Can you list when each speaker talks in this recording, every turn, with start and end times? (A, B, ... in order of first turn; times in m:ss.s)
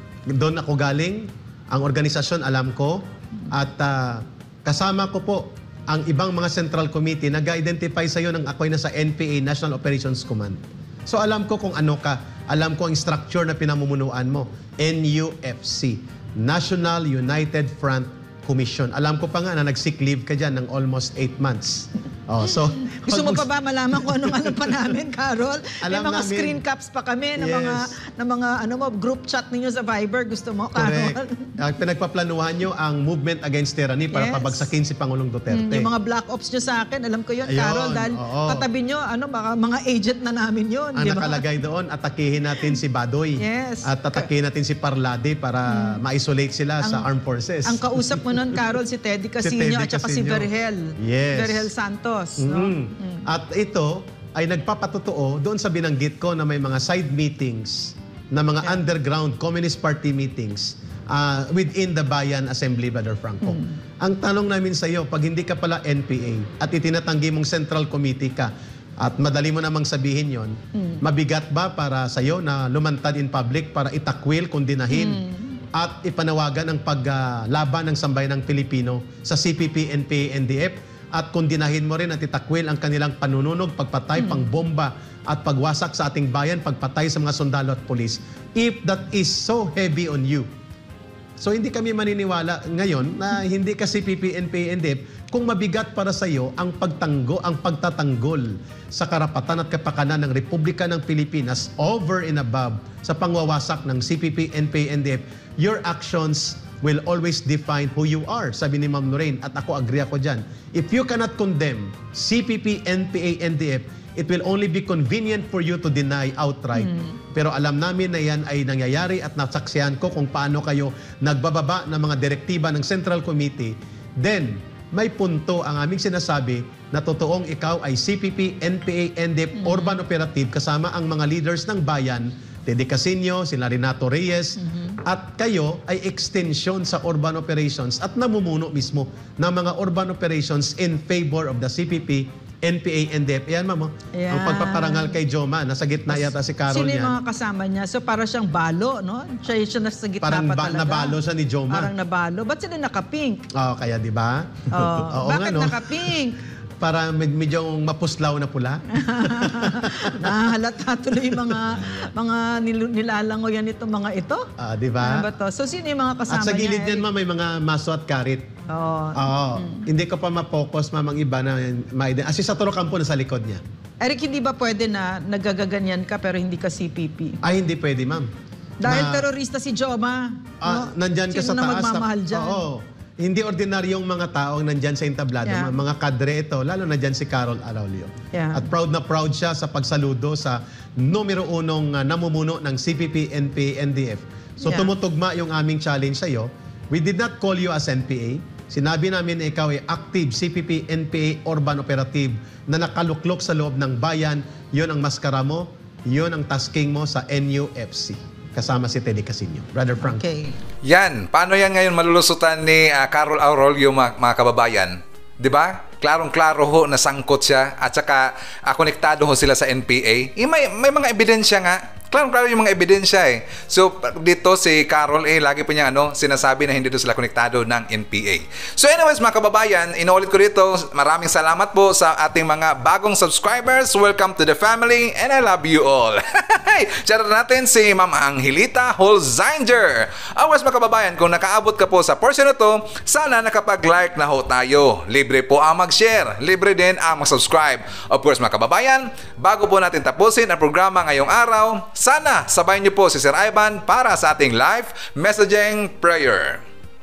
0:00.3-0:24.9 A
0:23.0-0:31.5 B
0:25.8-0:26.6 A
0:27.4-0:27.9 A
0:30.7-0:35.9 A
0:34.1-0:34.6 B
0:35.5-0:41.4 B
0:37.5-0:38.6 A
0:40.9-0:48.6 A
0:43.4-0:44.3 B
0:45.7-0:46.0 B
0:47.6-0:53.2 B
0:49.4-0:50.5 A
0:51.0-0:51.7 A
0:52.4-1:15.2 A
1:03.4-1:03.7 B
1:14.9-1:15.6 B
1:15.7-1:30.5 A
1:24.2-1:24.5 B
1:31.4-2:27.2 A
1:56.7-1:57.1 B
2:09.6-2:09.9 B
2:14.6-2:15.0 B
2:24.2-2:25.2 B
2:26.1-2:31.1 B
2:30.2-2:31.9 A
2:31.7-2:33.4 B
2:33.5-2:36.1 A
2:34.7-2:36.4 B
2:36.8-2:40.4 A
2:39.0-2:44.5 B
2:44.6-2:45.2 A
2:45.0-2:47.0 B
2:46.3-2:48.5 A
2:48.7-2:49.8 B
2:49.1-2:53.6 A
2:54.0-2:57.4 B
2:57.4-2:58.3 A
2:58.8-3:02.6 B
2:58.8-2:59.3 A
3:00.6-3:30.2 A
3:05.4-3:05.7 B
3:08.3-3:08.6 B
3:30.0-3:30.5 B
3:30.8-4:16.6 C